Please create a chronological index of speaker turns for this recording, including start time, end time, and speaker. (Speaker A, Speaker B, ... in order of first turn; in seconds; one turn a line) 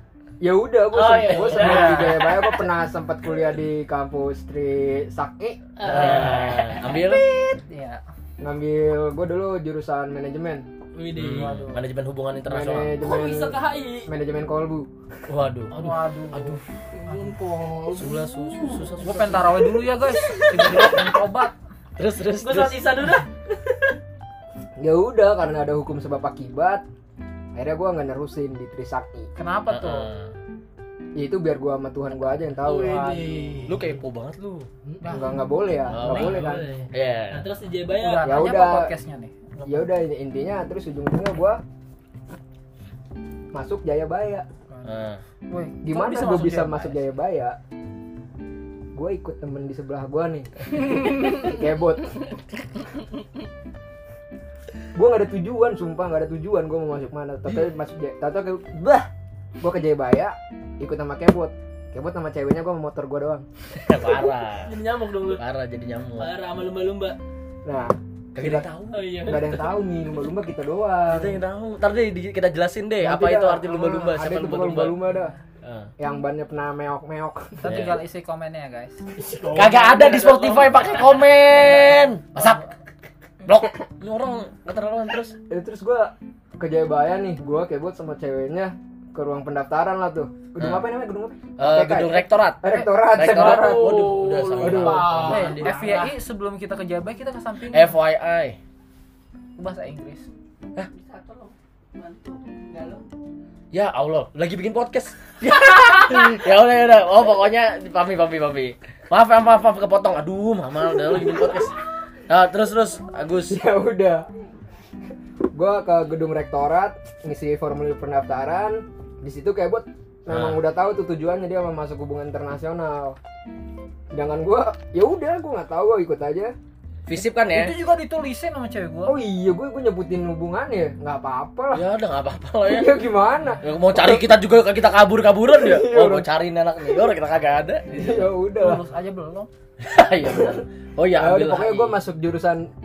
Speaker A: 0.4-7.5
Speaker B: 0.9-2.7
Speaker C: 1.5-2.3
Speaker B: 5.8-7.1
Speaker D: 5.9-7.2
Speaker C: 7.7-8.0
Speaker A: 8.4-10.7
Speaker B: 10.9-11.6
Speaker D: 11.2-13.0
Speaker C: 11.3-11.8
Speaker A: 12.5-14.9
Speaker B: 13.0-14.1
Speaker D: 15.3-16.6
Speaker C: 15.7-17.4
Speaker B: 17.0-21.1
Speaker D: 17.9-19.6
Speaker C: 19.0-21.5
Speaker D: 22.0-22.9
Speaker B: 22.4-23.9
Speaker A: 24.8-26.9
Speaker A: 27.6-29.3
Speaker C: 29.4-30.1
Speaker D: 29.7-30.3
Speaker A: 31.2-33.2
Speaker B: 32.6-33.9
Speaker C: 32.8-33.7
Speaker D: 33.7-34.7
Speaker A: 34.9-36.7
Speaker C: 35.0-35.5
Speaker D: 35.9-37.5
Speaker B: 36.0-38.3
Speaker C: 36.1-36.3
Speaker C: 38.0-39.9
Speaker A: 38.2-38.9
Speaker A: 39.6-41.6
Speaker A: 43.5-44.5
Speaker D: 44.9-45.2
Speaker C: 45.5-47.0
Speaker A: 45.8-47.6
Speaker A: 48.9-52.2
Speaker A: 55.0-59.1
Speaker A: 59.6-63.5
Speaker D: 63.8-64.8
Speaker B: 64.6-65.4
Speaker D: 65.3-66.3
Speaker B: 66.2-67.2
Speaker A: 67.7-68.7
Speaker D: 68.3-69.1
Speaker B: 68.9-69.8
Speaker A: 69.2-71.4
Speaker D: 71.1-75.0
Speaker A: 73.0-75.4
Speaker D: 75.6-75.9
Speaker A: 76.0-77.7
Speaker C: 77.6-79.0
Speaker D: 77.7-78.0
Speaker B: 79.2-81.2
Speaker D: 79.5-82.6
Speaker C: 81.1-82.7
Speaker D: 83.4-85.4
Speaker A: 85.5-95.3
Speaker D: 90.6-90.9
Speaker D: 91.6-95.7
Speaker B: 93.2-96.2
Speaker C: 95.2-98.0
Speaker D: 97.7-98.6
Speaker C: 99.6-100.3
Speaker B: 100.9-103.0
Speaker D: 103.7-111.8
Speaker D: 112.3-113.6
Speaker A: 113.5-114.3
Speaker A: 115.5-123.2
Speaker D: 120.3-120.6
Speaker A: 124.1-126.5
Speaker D: 127.1-127.8
Speaker C: 127.5-129.2
Speaker A: 129.1-131.8
Speaker D: 131.7-133.1
Speaker A: 132.7-134.2
Speaker D: 133.6-138.3
Speaker A: 135.5-136.3
Speaker A: 137.9-138.8
Speaker C: 138.6-139.5
Speaker D: 139.8-142.0
Speaker A: 141.2-142.7